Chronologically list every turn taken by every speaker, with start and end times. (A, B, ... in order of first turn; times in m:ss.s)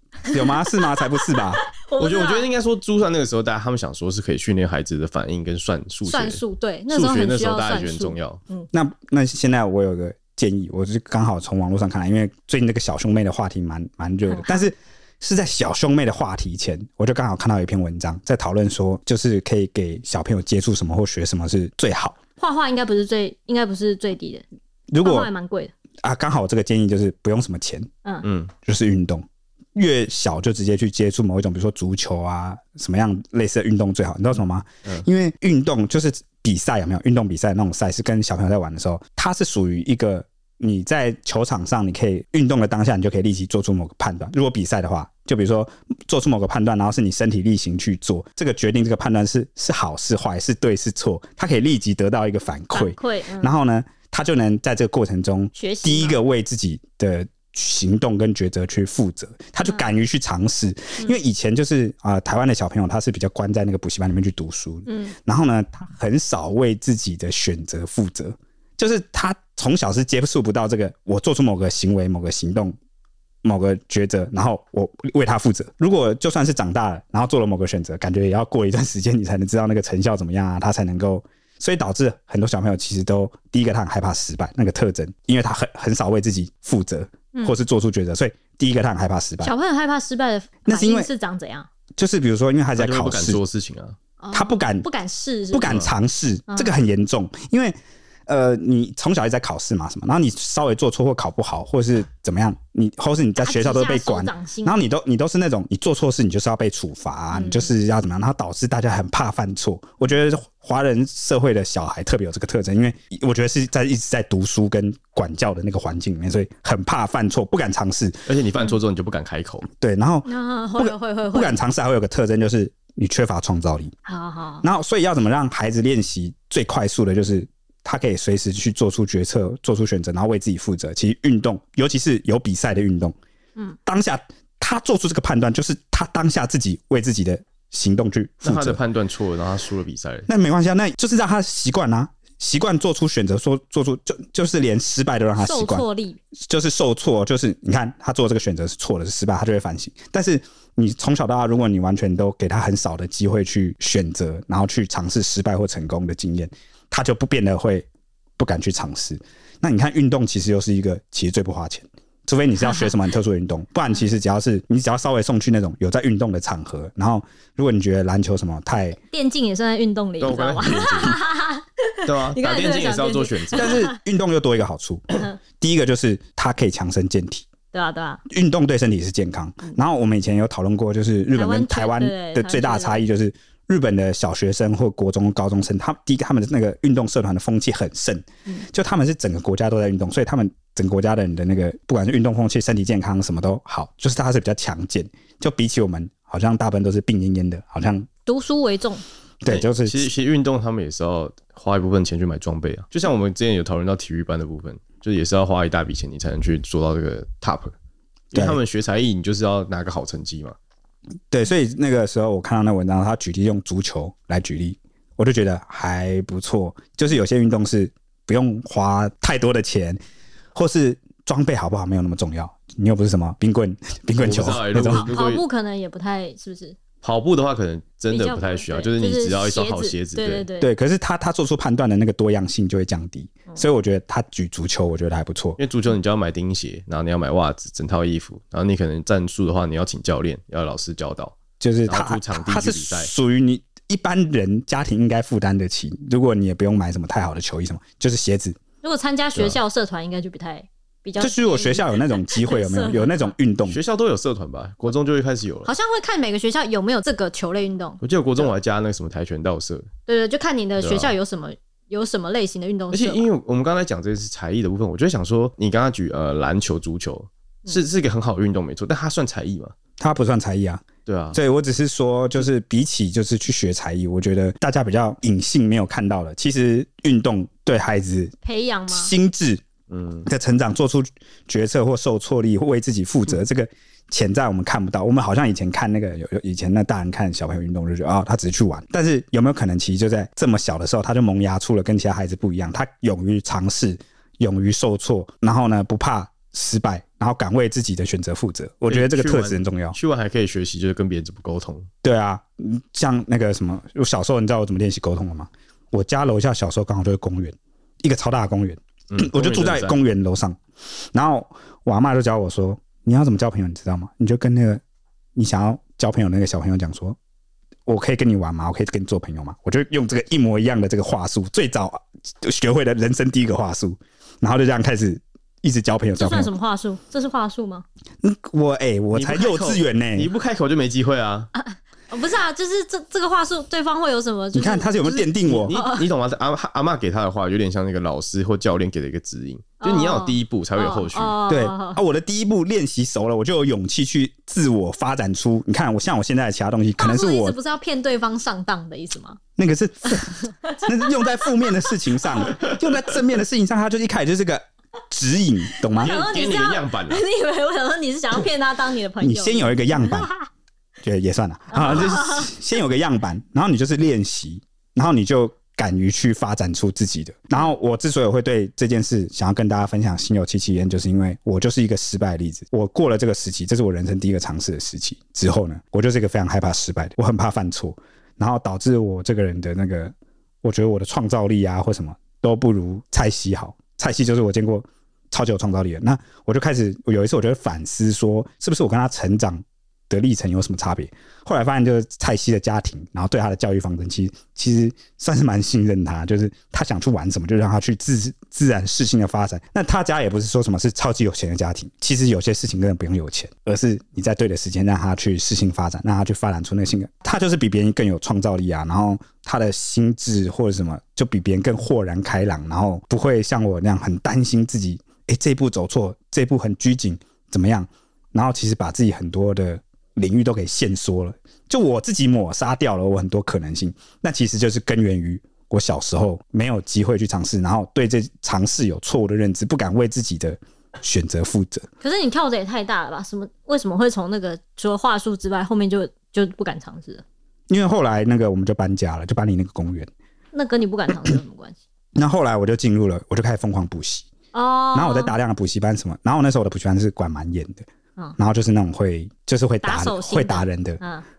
0:00.2-0:02.5 A
0:00.3-0:01.6 B
0:02.0-0:08.4 C
0:06.0-0:08.7 A
0:08.7-0:22.2 B
0:14.3-0:14.7 A
0:22.4-0:24.4 A
0:24.9-0:25.3 B
0:25.0-0:25.7 A
0:26.0-0:27.9 B
0:28.2-0:28.5 C
0:28.6-1:12.7 B
0:52.7-0:53.5 A
0:55.6-0:56.2 A
1:04.8-1:05.1 A
1:13.4-1:29.5 B
1:29.4-1:31.7 A
1:30.7-1:31.1 B
1:32.0-1:33.4 B
1:32.8-1:34.0 C
1:34.2-1:35.8 A
1:34.3-1:34.9 B
1:35.5-1:37.8 B
1:36.5-1:36.7 A
1:38.3-1:58.2 B
1:43.4-1:44.8 A
1:47.3-1:47.7 A
1:58.2-1:59.7 C
1:59.8-2:03.9 B
2:00.2-2:01.6 A
2:04.0-2:04.6 A
2:04.6-2:13.1 B
2:13.8-2:18.8 B
2:18.4-2:20.3 C
2:20.3-2:25.8 B
2:25.4-2:26.2 A
2:26.4-2:37.8 B
2:38.4-2:49.0 B
2:49.1-2:54.0 A
2:50.2-2:51.2 C
2:52.0-2:53.8 C
2:53.5-2:57.4 B
2:57.7-2:58.2 A
2:58.3-3:18.1 B
3:01.3-3:03.0 A
3:18.2-3:19.0 A
3:19.4-3:20.1 B
3:19.5-3:27.7 C
3:28.3-3:30.6 C
3:31.3-3:40.0 B
3:40.5-3:45.1 B
3:44.2-3:45.4 C
3:44.9-3:46.8 A
3:47.0-3:50.5 C
3:48.1-3:50.7 A
3:50.6-3:55.6 B
3:55.6-4:03.1 C
4:01.6-4:08.6 B
4:08.8-4:13.3 A
4:11.2-4:13.8 B
4:13.6-4:15.7 C
4:15.6-4:18.5 A
4:18.0-4:19.9 C
4:20.1-4:23.2 A
4:20.8-4:21.1 C
4:22.9-4:29.7 C
4:30.0-4:38.3 B
4:31.0-4:31.4 C
4:38.4-4:39.1 A
4:38.9-4:39.6 B
4:39.9-4:40.3 C
4:40.2-5:00.0 B
4:58.9-5:01.9 C
5:02.0-5:10.6 B
5:09.1-5:09.9 C
5:11.1-5:14.8 B
5:15.3-5:17.2 B
5:17.8-5:26.5 B
5:26.2-5:27.8 A
5:28.2-5:30.3 B
5:29.1-5:31.5 C
5:31.5-5:36.1 A
5:34.5-5:35.7 B
5:35.4-5:41.4 C
5:39.8-5:42.0 A
5:41.5-5:47.6 B
5:47.0-5:49.4 A
5:49.6-5:56.2 B
5:50.4-5:52.5 A
5:55.9-6:00.4 A
5:56.0-5:57.2 C
5:59.2-6:00.3 B
6:01.0-7:11.9 B
6:01.7-6:02.5 A
7:12.0-7:17.2 A
7:17.7-7:20.1 B
7:20.5-7:21.8 A
7:22.2-7:24.3 B
7:24.5-7:25.3 A
7:24.9-7:27.8 B
7:28.4-7:31.0 B
7:29.8-7:31.2 A